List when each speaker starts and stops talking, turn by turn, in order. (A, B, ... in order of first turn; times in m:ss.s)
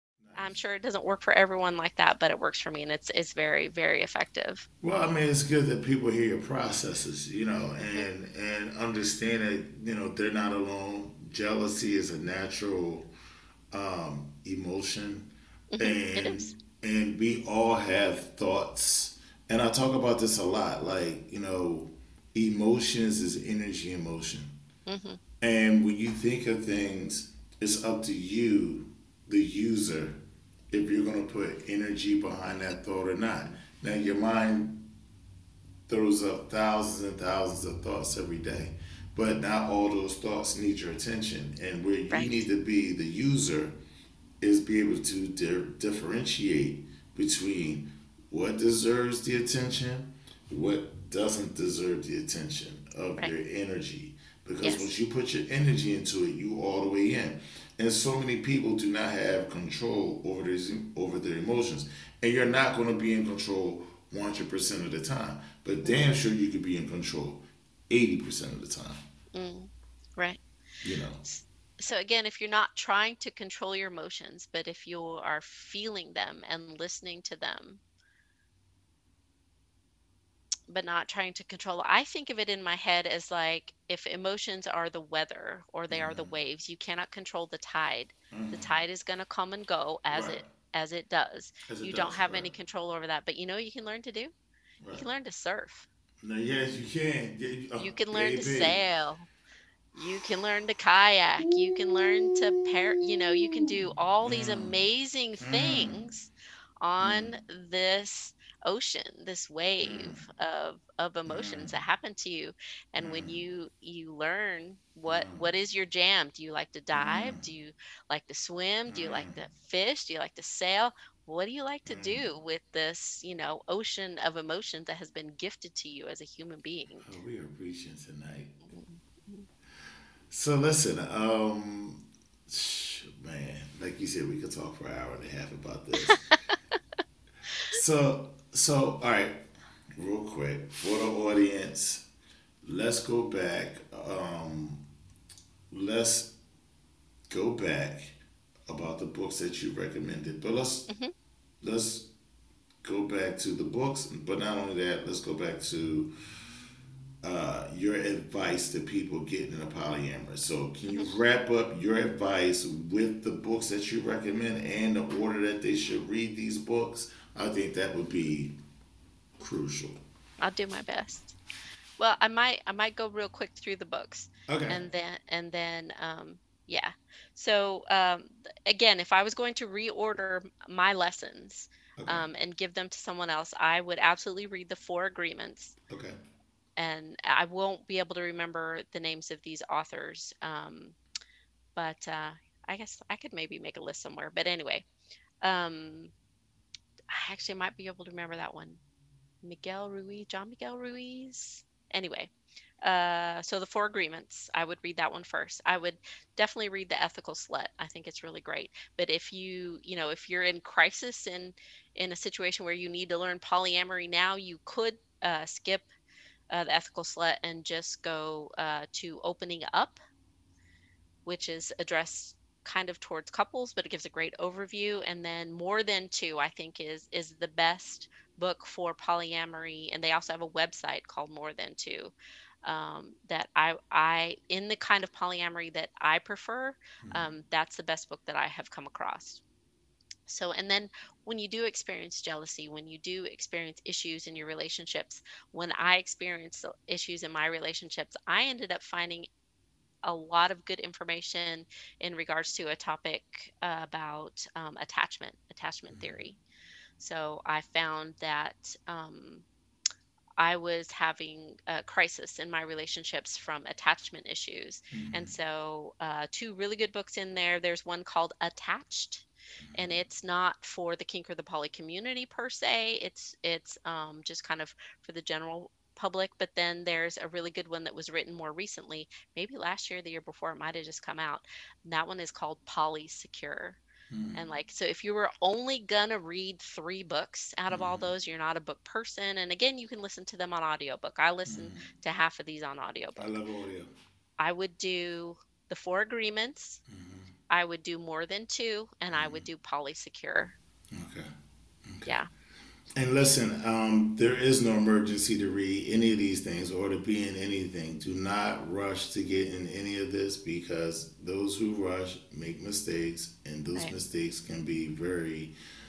0:00.2-0:00.6 A
0:00.4-0:04.6 B
0:04.8-0:13.1 A
0:13.7-0:24.5 A
0:15.7-0:16.6 B
0:24.9-0:25.2 B
0:25.4-0:30.2 A
0:30.7-0:34.8 A
0:35.9-0:43.7 A
0:42.1-0:42.4 B
0:44.4-1:09.0 A
0:54.6-0:54.9 B
1:09.3-1:10.4 B
1:10.8-1:11.2 A
1:11.2-1:17.8 B
1:20.7-1:34.3 B
1:25.9-1:26.3 A
1:28.3-1:28.7 A
1:30.1-1:30.4 A
1:31.7-1:32.5 A
1:34.8-1:35.1 A
1:34.9-1:35.9 B
1:36.2-1:38.8 A
1:37.8-1:39.3 B
1:39.9-1:46.3 B
1:41.4-1:42.7 A
1:43.2-1:43.7 A
1:44.2-1:44.8 A
1:45.4-1:46.0 A
1:46.8-2:07.0 B
1:47.0-1:47.3 A
1:49.8-1:50.2 A
1:51.3-1:51.8 A
1:53.0-1:53.4 A
1:55.0-1:55.4 A
1:56.9-1:57.4 A
1:58.9-1:59.4 A
2:01.9-2:02.2 A
2:07.0-2:08.6 A
2:08.7-2:09.5 B
2:10.3-2:16.3 A
2:16.0-2:16.6 B
2:17.7-2:19.4 A
2:20.0-2:22.0 A
2:22.6-2:24.8 A
2:25.7-2:26.3 A
2:27.3-2:30.9 A
2:30.9-2:31.1 B
2:31.6-2:32.1 A
2:32.8-2:36.1 A
2:37.2-2:48.6 A
2:49.4-2:50.0 A
2:50.4-2:51.4 B
2:52.0-3:05.7 B
2:54.5-2:54.8 A
3:02.0-3:02.3 A
3:05.9-3:06.2 A
3:06.8-3:11.0 B
3:11.7-3:14.9 B
3:15.4-3:16.1 B
3:17.1-3:18.8 B
3:19.4-3:22.3 B
3:22.8-3:35.9 B
3:36.5-3:40.0 B
3:41.2-3:52.1 B
3:52.6-3:59.4 B
3:57.0-3:57.3 A
4:00.3-4:09.3 B
4:10.0-4:16.4 B
4:15.9-4:16.2 A
4:17.0-4:19.4 B
4:20.4-4:43.8 B
4:24.9-4:25.3 A
4:29.7-4:30.0 A
4:44.1-4:44.4 A
4:44.3-4:53.4 B
4:47.7-4:48.1 A
4:51.4-4:51.9 A
4:53.2-4:53.9 A
4:54.4-4:56.8 B
4:56.9-4:57.3 A
4:57.5-5:00.6 B
4:59.1-4:59.4 A
5:00.9-5:01.3 A
5:01.8-5:02.1 A
5:03.0-5:15.5 A